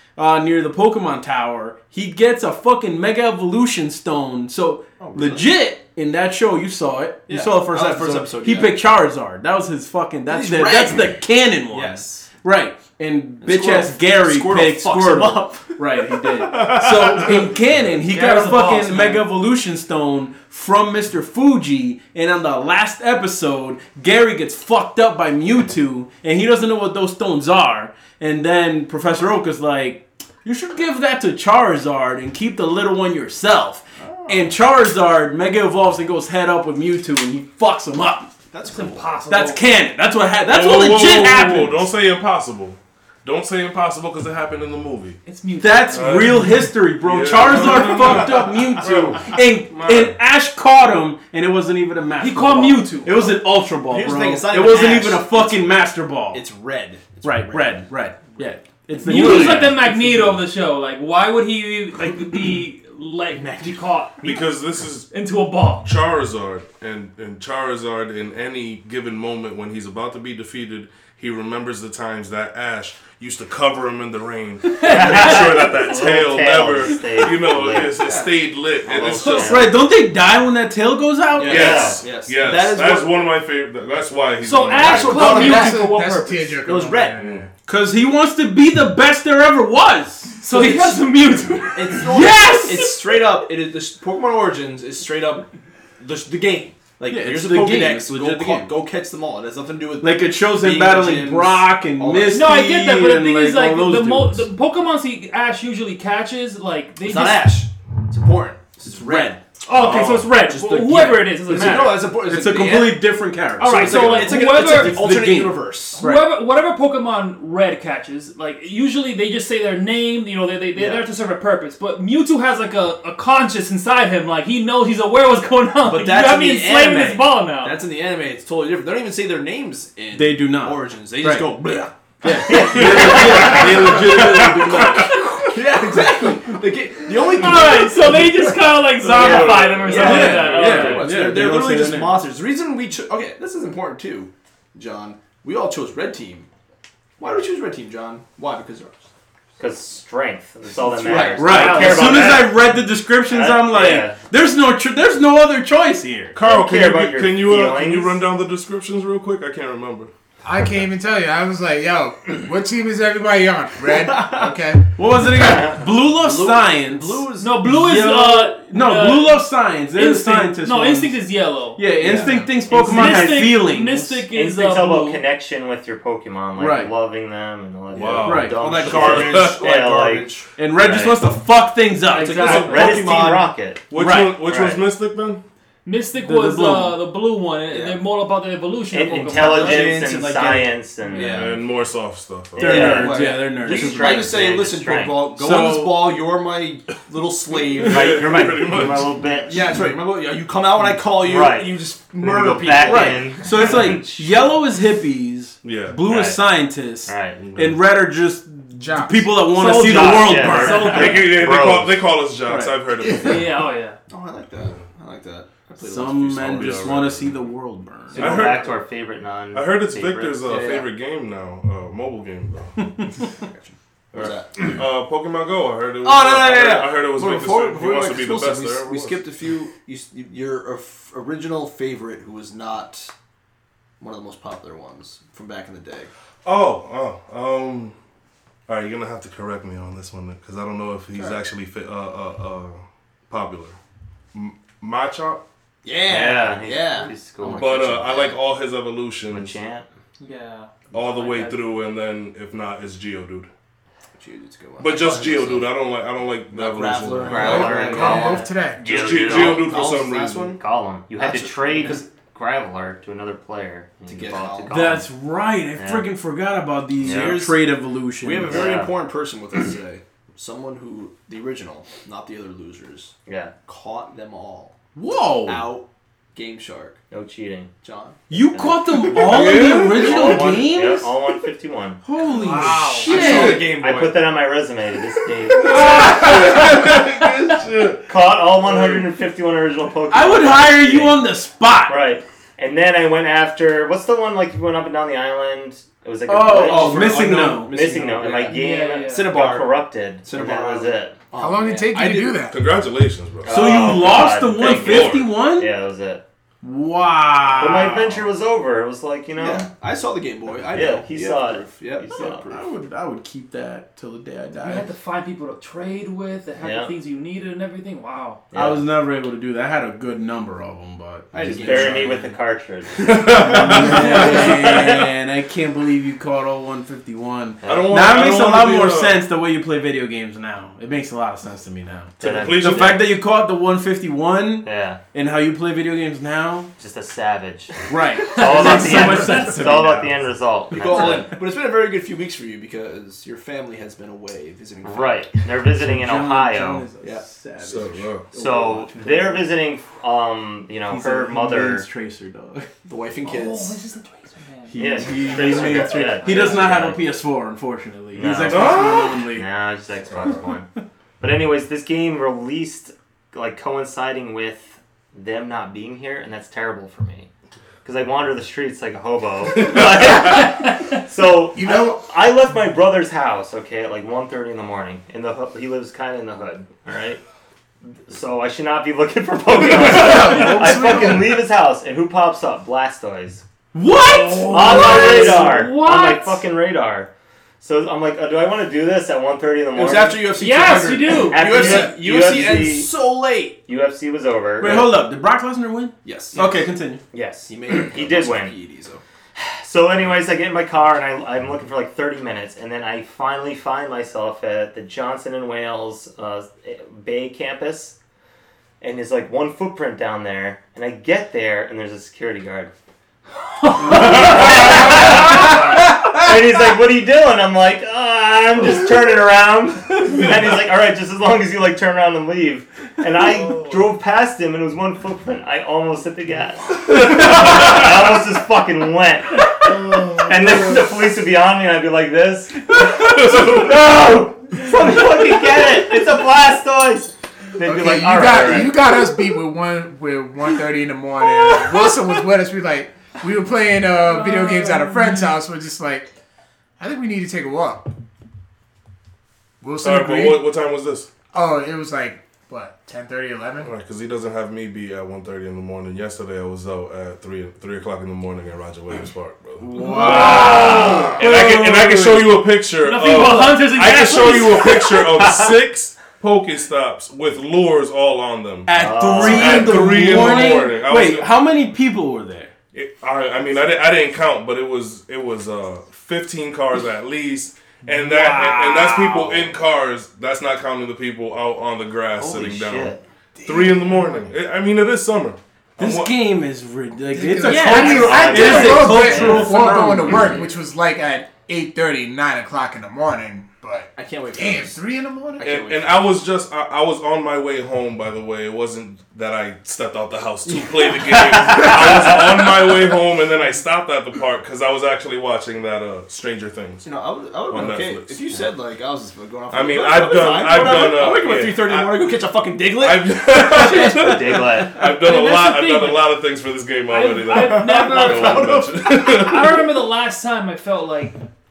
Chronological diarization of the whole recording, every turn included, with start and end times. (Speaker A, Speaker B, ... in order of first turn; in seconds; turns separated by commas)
Speaker A: 0.2-38.3, Speaker B: 5.0-5.5, Speaker B: 7.3-8.8, Speaker B: 10.3-12.3, Speaker B: 13.4-19.2, Speaker B: 34.0-34.5, Speaker B: 38.5-39.2, Speaker C: 38.6-39.7, Speaker A: 39.3-41.9, Speaker D: 40.5-45.2, Speaker C: 45.2-46.5, Speaker A: 45.6-56.4, Speaker D: 45.9-50.1, Speaker C: 52.2-53.2, Speaker B: 53.2-59.3, Speaker E: 54.8-55.1, Speaker A: 57.2-60.4, Speaker C: 59.0-64.5, Speaker D: 64.2-65.1, Speaker C: 65.1-65.9, Speaker D: 65.8-79.6, Speaker C: 74.7-75.5, Speaker E: 74.8-78.2, Speaker B: 78.0-78.3, Speaker E: 78.8-79.7, Speaker A: 79.1-82.0, Speaker B: 81.3-83.2, Speaker D: 81.4-85.4, Speaker E: 81.5-82.0, Speaker C: 84.4-86.6, Speaker B: 84.8-85.8, Speaker F: 85.1-87.4, Speaker B: 86.6-87.2, Speaker D: 87.2-87.5, Speaker A: 87.7-90.7, Speaker C: 90.4-92.9, Speaker B: 91.7-95.5, Speaker A: 92.0-92.9, Speaker B: 96.0-102.6, Speaker A: 97.0-98.7, Speaker A: 100.0-104.5, Speaker C: 102.3-107.6, Speaker B: 107.0-109.4, Speaker A: 108.9-109.4, Speaker C: 109.7-112.1, Speaker D: 109.7-110.3, Speaker B: 110.5-116.0, Speaker A: 110.6-116.3, Speaker C: 113.6-115.0, Speaker C: 116.0-127.8, Speaker B: 120.7-121.1, Speaker B: 125.8-138.3, Speaker A: 130.1-131.6, Speaker A: 132.2-135.1, Speaker E: 132.5-133.6, Speaker D: 132.7-134.7, Speaker C: 135.0-135.5, Speaker C: 137.1-141.1, Speaker D: 138.9-140.4, Speaker E: 139.2-139.7, Speaker B: 139.3-146.5, Speaker A: 139.9-142.2, Speaker B: 147.2-149.1, Speaker E: 149.6-154.2, Speaker B: 150.8-152.4, Speaker A: 151.3-156.3, Speaker D: 156.3-160.1, Speaker E: 156.4-158.2, Speaker F: 160.4-164.8, Speaker B: 163.9-164.6, Speaker A: 164.9-174.2, Speaker E: 165.4-165.8, Speaker B: 166.0-167.6, Speaker C: 167.4-171.9, Speaker B: 172.0-172.5, Speaker C: 172.7-175.2, Speaker E: 172.7-173.6, Speaker E: 174.3-181.2, Speaker A: 176.6-176.9, Speaker D: 177.9-179.6, Speaker A: 178.2-178.6, Speaker B: 178.5-180.6, Speaker A: 180.6-184.4, Speaker C: 182.1-182.9, Speaker B: 182.2-183.4, Speaker D: 182.4-183.1, Speaker E: 182.5-184.8, Speaker D: 183.9-185.4, Speaker C: 185.8-190.1, Speaker A: 186.2-187.0, Speaker B: 187.7-188.0, Speaker E: 188.9-191.5, Speaker B: 189.2-191.6, Speaker D: 191.2-193.0, Speaker A: 192.6-194.3, Speaker E: 192.6-195.2, Speaker B: 192.6-198.4, Speaker A: 195.3-196.1, Speaker D: 197.7-199.3, Speaker E: 197.8-199.7, Speaker B: 199.5-203.3, Speaker E: 201.2-204.5, Speaker A: 202.8-211.0, Speaker D: 205.6-206.0, Speaker E: 206.0-206.4, Speaker E: 207.1-207.4, Speaker D: 207.4-207.8, Speaker F: 208.7-209.3, Speaker C: 209.5-211.3, Speaker E: 209.6-212.1, Speaker D: 210.9-213.6, Speaker A: 212.4-212.8, Speaker C: 213.1-214.0, Speaker B: 214.1-217.1, Speaker A: 215.8-218.4, Speaker D: 216.4-217.3, Speaker B: 218.1-218.7, Speaker D: 218.2-218.7, Speaker E: 218.2-220.4, Speaker D: 219.5-222.9, Speaker B: 220.4-220.9, Speaker B: 223.3-224.8, Speaker D: 224.1-229.2, Speaker B: 226.0-233.1, Speaker B: 234.0-236.1, Speaker D: 236.4-237.9, Speaker D: 238.7-243.8, Speaker B: 241.1-241.4, Speaker D: 244.3-245.4, Speaker B: 245.8-247.6, Speaker E: 246.0-248.4, Speaker D: 247.4-249.5, Speaker E: 249.3-249.8, Speaker C: 250.2-251.6, Speaker D: 250.9-253.5, Speaker B: 254.2-255.7, Speaker D: 254.8-257.8, Speaker B: 256.5-258.4, Speaker E: 257.2-259.8, Speaker F: 257.4-258.9, Speaker C: 258.1-258.5, Speaker D: 258.8-260.6, Speaker B: 258.9-260.6, Speaker E: 260.6-265.1, Speaker B: 261.1-262.1, Speaker B: 264.1-264.7, Speaker A: 264.7-268.6, Speaker E: 265.8-266.1, Speaker E: 267.0-267.5, Speaker B: 267.0-267.6, Speaker B: 268.2-273.1, Speaker E: 268.4-268.9, Speaker E: 273.2-273.5, Speaker B: 273.6-274.8, Speaker A: 274.9-275.7, Speaker B: 275.4-277.0, Speaker E: 277.1-277.7, Speaker B: 277.8-278.2, Speaker A: 278.3-281.1, Speaker E: 278.3-282.0, Speaker D: 279.1-280.5, Speaker A: 282.0-283.6, Speaker C: 282.3-283.2, Speaker B: 282.9-284.3, Speaker E: 283.1-286.9, Speaker D: 283.2-283.7, Speaker D: 285.4-289.0, Speaker C: 285.9-286.5, Speaker E: 288.1-291.2, Speaker A: 290.1-292.0, Speaker E: 291.9-301.2, Speaker A: 296.3-297.8, Speaker B: 296.5-302.4, Speaker C: 298.5-299.3, Speaker F: 301.4-302.6, Speaker D: 302.5-305.3, Speaker E: 303.4-306.2, Speaker A: 303.5-305.7, Speaker A: 306.6-308.2, Speaker E: 307.6-309.7, Speaker B: 309.4-312.6, Speaker E: 310.7-312.5, Speaker A: 312.4-314.9, Speaker C: 314.6-318.4, Speaker E: 316.6-316.9, Speaker E: 318.5-318.8, Speaker A: 318.5-322.2, Speaker B: 321.3-322.3, Speaker E: 321.4-325.0, Speaker D: 323.0-324.2, Speaker A: 323.4-336.7, Speaker E: 327.6-328.1, Speaker D: 327.6-329.2, Speaker D: 332.2-333.0, Speaker E: 332.2-333.0, Speaker E: 334.6-335.0, Speaker E: 336.8-341.4, Speaker A: 337.9-340.1, Speaker C: 338.6-339.8, Speaker B: 340.7-345.3, Speaker A: 340.9-341.2, Speaker E: 344.8-346.9, Speaker A: 345.7-349.5, Speaker B: 347.0-347.2, Speaker D: 347.6-348.3, Speaker E: 348.3-351.9, Speaker A: 350.9-352.7, Speaker B: 352.9-353.8, Speaker C: 353.2-356.7, Speaker A: 354.7-359.4, Speaker E: 354.7-357.1, Speaker B: 355.2-356.0, Speaker E: 358.1-360.7, Speaker D: 358.4-359.2, Speaker E: 361.2-367.3, Speaker E: 367.8-377.2, Speaker D: 369.6-370.3, Speaker F: 371.5-372.0, Speaker E: 377.8-383.4, Speaker F: 379.6-381.3, Speaker A: 380.0-381.0, Speaker A: 383.7-385.6, Speaker E: 384.4-387.1, Speaker C: 384.6-386.4, Speaker E: 387.6-390.3, Speaker B: 389.7-393.6, Speaker C: 390.4-391.4, Speaker E: 391.3-393.0, Speaker E: 393.7-394.9, Speaker A: 394.6-397.0, Speaker B: 396.0-396.7, Speaker E: 397.1-398.6, Speaker B: 397.5-399.0, Speaker E: 399.4-407.9, Speaker E: 408.8-412.7, Speaker C: 413.6-415.5, Speaker E: 413.7-438.8, Speaker D: 423.3-423.9, Speaker D: 429.7-430.8, Speaker D: 433.0-433.6, Speaker F: 437.6-446.1, Speaker C: 444.0-445.3, Speaker F: 446.8-447.9, Speaker F: 449.6-450.5, Speaker D: 449.8-451.1, Speaker F: 451.3-453.7, Speaker D: 453.6-471.3, Speaker A: 459.6-462.4, Speaker C: 459.9-461.2, Speaker F: 460.7-461.0, Speaker C: 462.8-465.1, Speaker E: 465.2-465.5, Speaker A: 468.6-472.5, Speaker E: 468.7-469.9, Speaker D: 472.7-486.2, Speaker C: 478.6-479.3, Speaker E: 482.1-483.0, Speaker F: 483.4-484.3, Speaker A: 485.8-490.3, Speaker F: 487.1-495.4, Speaker C: 487.5-488.9, Speaker E: 487.5-489.5, Speaker D: 489.0-489.7, Speaker B: 493.9-494.8, Speaker B: 495.4-496.1, Speaker D: 495.4-506.9, Speaker E: 501.4-502.2, Speaker B: 506.8-514.5, Speaker D: 507.5-508.1, Speaker D: 509.5-512.0, Speaker D: 512.8-519.8, Speaker E: 513.9-514.8, Speaker C: 514.8-516.2, Speaker C: 516.9-521.2, Speaker B: 517.5-519.3